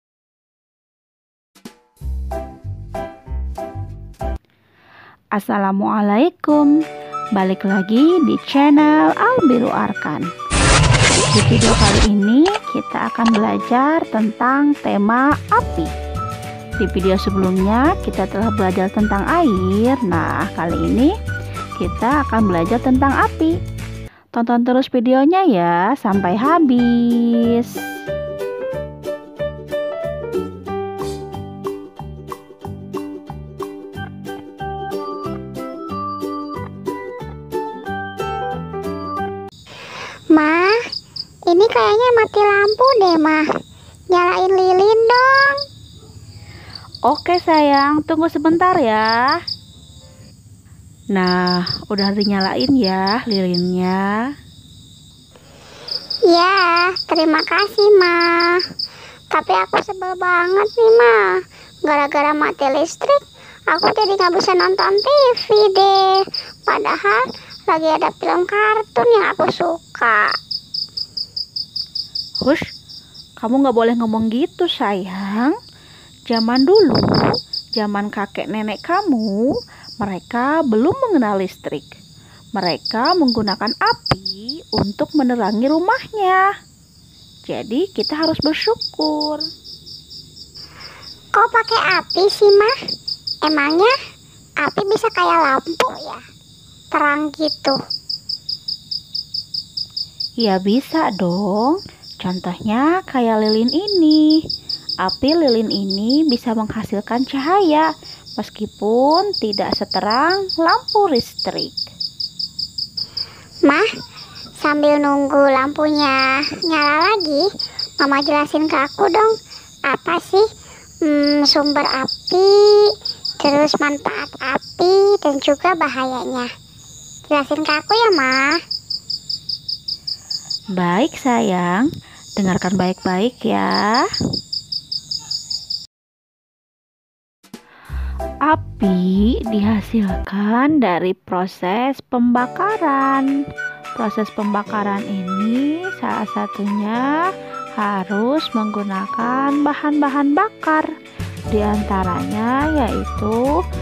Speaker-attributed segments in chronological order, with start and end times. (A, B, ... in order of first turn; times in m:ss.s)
0:05.3-0:06.7 A
0:07.4-0:10.3 A
0:11.3-0:15.9 A
0:16.8-0:21.1 A
0:21.8-0:23.5 A
0:24.3-0:27.8 A
0:40.3-0:40.8 B
0:41.5-0:43.4 B
0:44.1-0:45.6 B
0:47.0-0:49.4 A
0:51.1-0:54.1 A
0:56.3-0:58.6 B
0:59.3-1:01.2 B
1:01.8-1:10.3 B
1:13.4-1:15.5 A
1:16.3-1:19.4 A
1:20.0-1:21.9 A
1:22.6-1:26.4 A
1:27.5-1:29.4 A
1:31.4-1:32.7 B
1:33.4-1:34.0 B
1:34.6-1:36.2 B
1:36.9-1:37.8 B
1:40.4-1:44.4 A
1:45.0-1:51.8 A
1:54.6-1:57.4 B
1:58.0-1:59.3 B
1:59.9-2:00.4 B
2:01.1-2:02.9 B
2:03.4-2:06.5 B
2:07.3-2:08.6 B
2:10.8-2:14.1 A
2:18.4-2:23.3 A
2:24.0-2:27.0 A
2:27.8-2:30.9 A
2:31.5-2:33.4 A